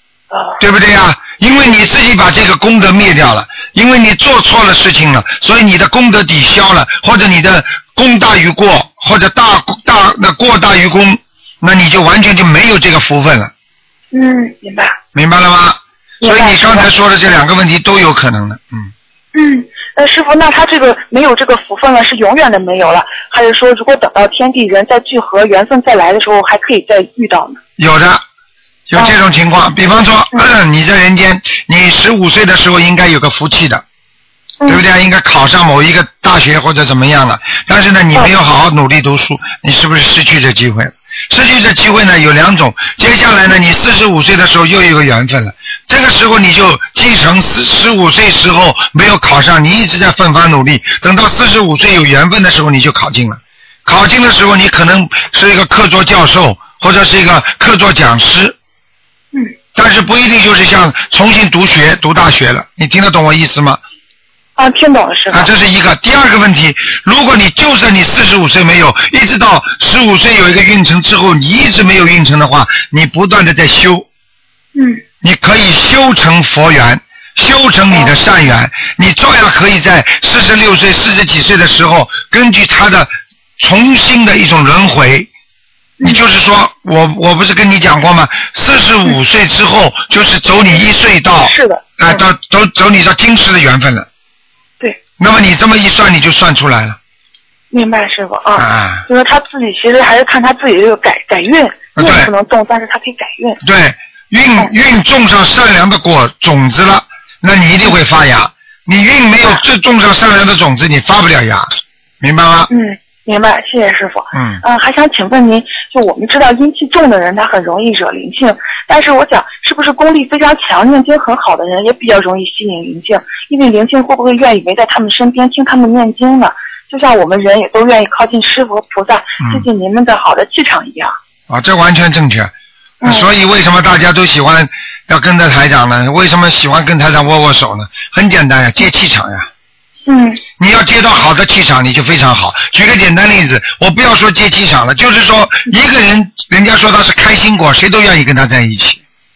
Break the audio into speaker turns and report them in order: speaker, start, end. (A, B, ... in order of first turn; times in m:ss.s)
0:00.3-0:00.6 A
0:00.6-0:13.5 B
0:14.1-0:15.0 A
0:15.1-0:18.9 B
0:16.2-0:16.9 A
0:19.3-0:27.6 A
0:27.8-0:28.2 B
0:28.9-0:33.8 B
0:34.7-0:58.6 B
0:59.7-1:03.8 B
1:04.6-1:05.5 A
1:05.3-1:14.0 B
1:14.7-1:15.0 A
1:15.2-1:25.3 B
1:26.0-1:34.1 B
1:31.4-1:32.2 A
1:35.2-1:37.0 B
1:37.7-1:43.6 A
1:38.6-1:39.0 B
1:42.0-1:42.3 B
1:43.6-1:51.7 B
1:52.2-1:52.7 B
1:52.7-2:11.1 A
1:54.3-1:54.6 B
2:09.4-2:09.6 B
2:11.5-2:12.5 B
2:13.0-2:13.3 A
2:13.0-2:19.5 B
2:20.1-2:20.4 A
2:20.6-2:29.0 B